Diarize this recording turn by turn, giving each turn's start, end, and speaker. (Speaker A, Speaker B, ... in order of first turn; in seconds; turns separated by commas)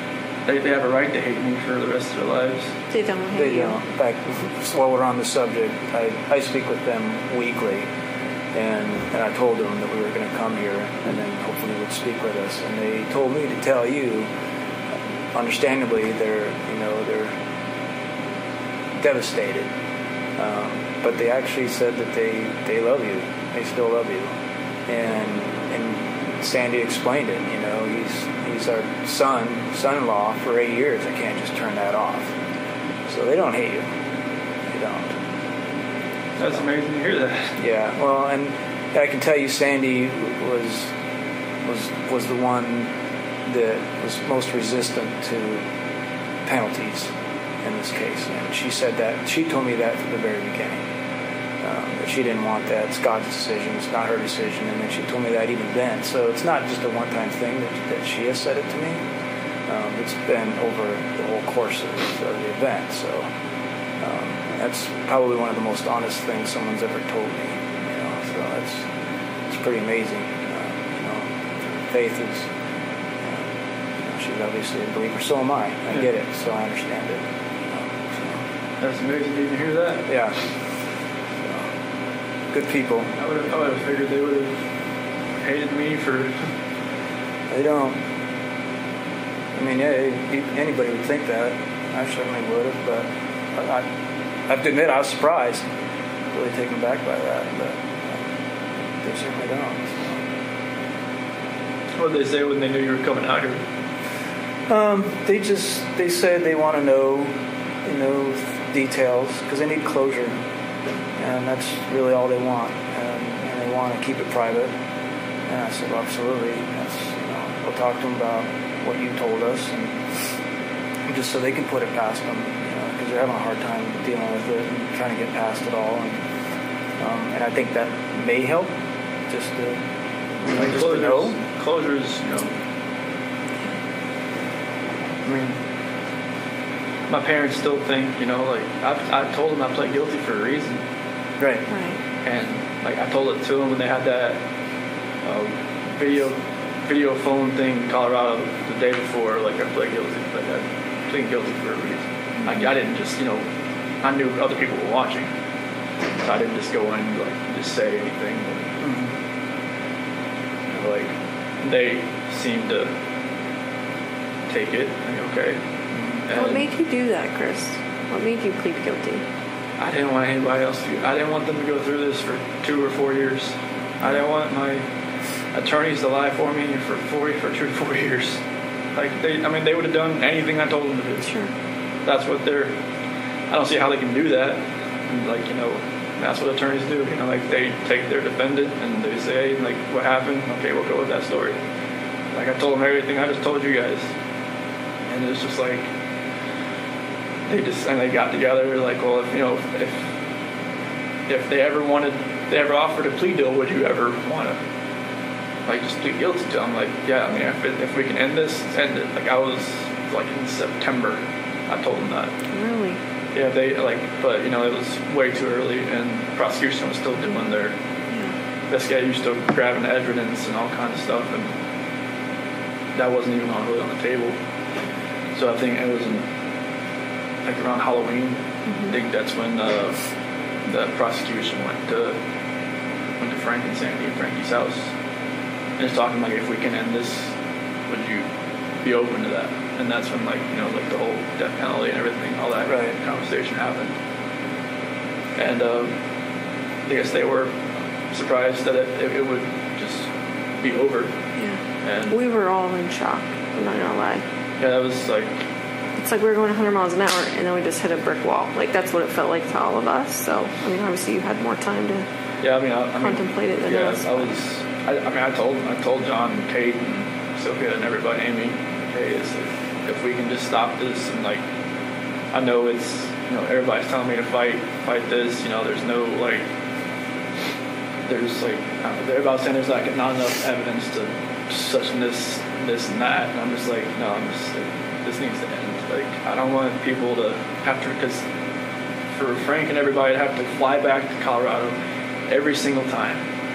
Speaker A: 0.5-2.7, Speaker B: 2.9-3.8, Speaker C: 3.4-7.9, Speaker C: 8.5-14.3, Speaker C: 15.3-17.3, Speaker C: 19.0-19.7, Speaker C: 20.4-24.3, Speaker C: 24.9-32.3, Speaker C: 33.1-34.0, Speaker C: 34.7-35.2, Speaker A: 36.4-37.6, Speaker C: 37.6-40.9, Speaker C: 41.6-42.9, Speaker C: 43.5-45.6, Speaker C: 46.5-50.8, Speaker C: 51.6-59.0, Speaker C: 59.7-63.3, Speaker C: 64.0-68.9, Speaker C: 69.5-72.5, Speaker C: 73.2-78.4, Speaker A: 78.8-80.1, Speaker C: 80.1-80.4, Speaker C: 81.4-81.7, Speaker C: 82.5-83.2, Speaker A: 83.2-84.6, Speaker A: 85.4-86.5, Speaker C: 87.5-88.0, Speaker C: 89.5-93.9, Speaker C: 94.5-95.7, Speaker C: 96.3-98.3, Speaker C: 99.0-100.2, Speaker A: 102.0-103.6, Speaker C: 104.7-107.3, Speaker C: 107.8-110.4, Speaker C: 111.2-114.7, Speaker C: 115.5-120.0, Speaker C: 121.1-126.2, Speaker C: 127.0-128.7, Speaker C: 129.3-129.8, Speaker C: 130.4-131.4, Speaker A: 130.5-132.5, Speaker A: 135.3-135.6, Speaker A: 137.1-140.8, Speaker C: 141.4-141.7, Speaker B: 141.7-142.0, Speaker A: 142.2-144.4, Speaker A: 145.2-153.4, Speaker A: 154.0-155.3, Speaker A: 156.2-158.7, Speaker C: 158.8-159.1, Speaker A: 160.7-161.1, Speaker A: 161.6-162.9, Speaker A: 164.5-165.6, Speaker C: 165.9-166.2, Speaker A: 166.3-166.6, Speaker B: 166.3-169.2, Speaker A: 169.8-174.8, Speaker A: 175.5-178.4, Speaker A: 178.9-181.3, Speaker B: 181.2-181.5, Speaker A: 182.1-182.7, Speaker A: 183.5-191.6, Speaker A: 192.3-194.1, Speaker A: 195.1-195.9, Speaker A: 197.5-200.1, Speaker A: 201.3-204.6, Speaker A: 205.7-212.3, Speaker B: 212.5-213.0, Speaker A: 213.3-217.7, Speaker A: 218.7-221.5, Speaker A: 222.9-224.3, Speaker A: 225.3-226.2, Speaker A: 227.4-228.4, Speaker A: 228.9-230.0, Speaker A: 230.7-232.2, Speaker A: 233.2-234.9, Speaker A: 235.8-237.3, Speaker A: 237.9-238.2, Speaker A: 238.8-243.9, Speaker C: 242.7-242.9, Speaker A: 245.4-245.9, Speaker A: 246.9-247.6, Speaker A: 248.1-250.1, Speaker A: 250.6-251.2, Speaker B: 251.4-254.2, Speaker A: 251.8-252.2, Speaker A: 254.6-255.4, Speaker B: 256.0-262.1, Speaker A: 262.4-271.4, Speaker B: 263.0-264.3, Speaker A: 272.3-276.4, Speaker A: 278.1-288.2, Speaker A: 289.1-291.8, Speaker A: 292.3-293.2